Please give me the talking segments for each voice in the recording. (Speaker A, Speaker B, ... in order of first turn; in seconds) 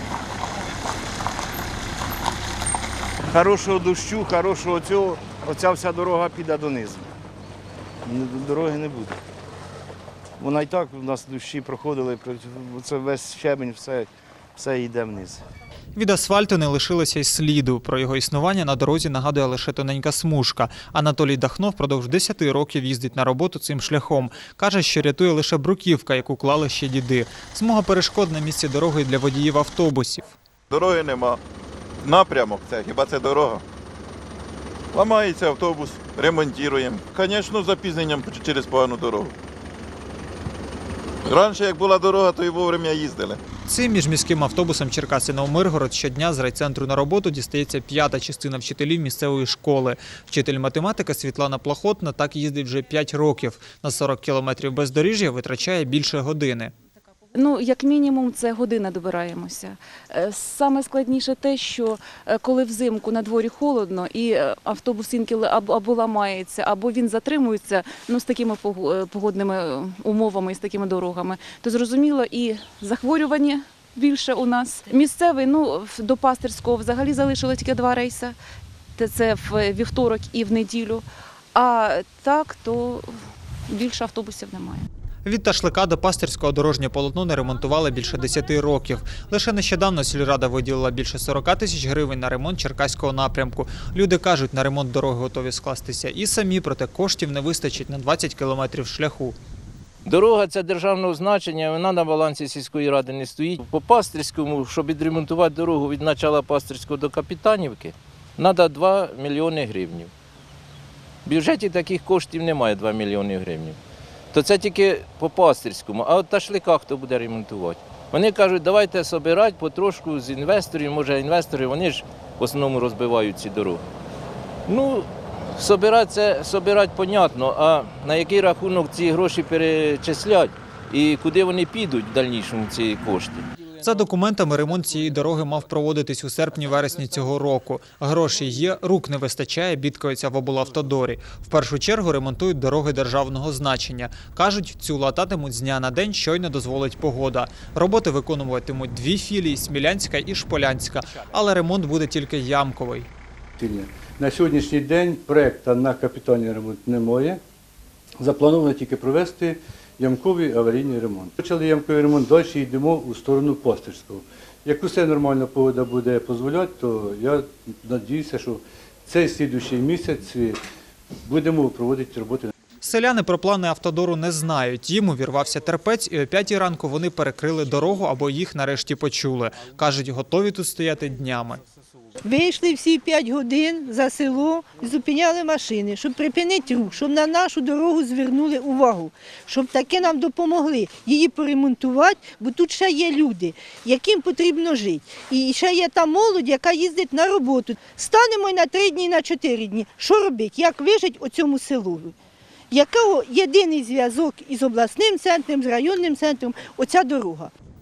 Speaker A: 3.3-7.1, 8.0-9.2, 10.4-15.4
Speaker B: 15.9-30.4, 43.6-56.7, 85.2-99.4, 133.8-153.1, 172.8-181.6
Speaker C: 30.7-31.4, 32.0-33.6, 34.9-39.3, 41.2-43.4
Speaker D: 57.3-78.3, 79.0-83.1, 83.7-84.9
Speaker E: 100.0-110.1, 111.2-113.8, 114.3-123.8, 124.7-133.5
Speaker F: 153.6-157.4, 158.2-170.6, 171.2-172.5
Speaker G: 182.2-202.1, 202.7-207.5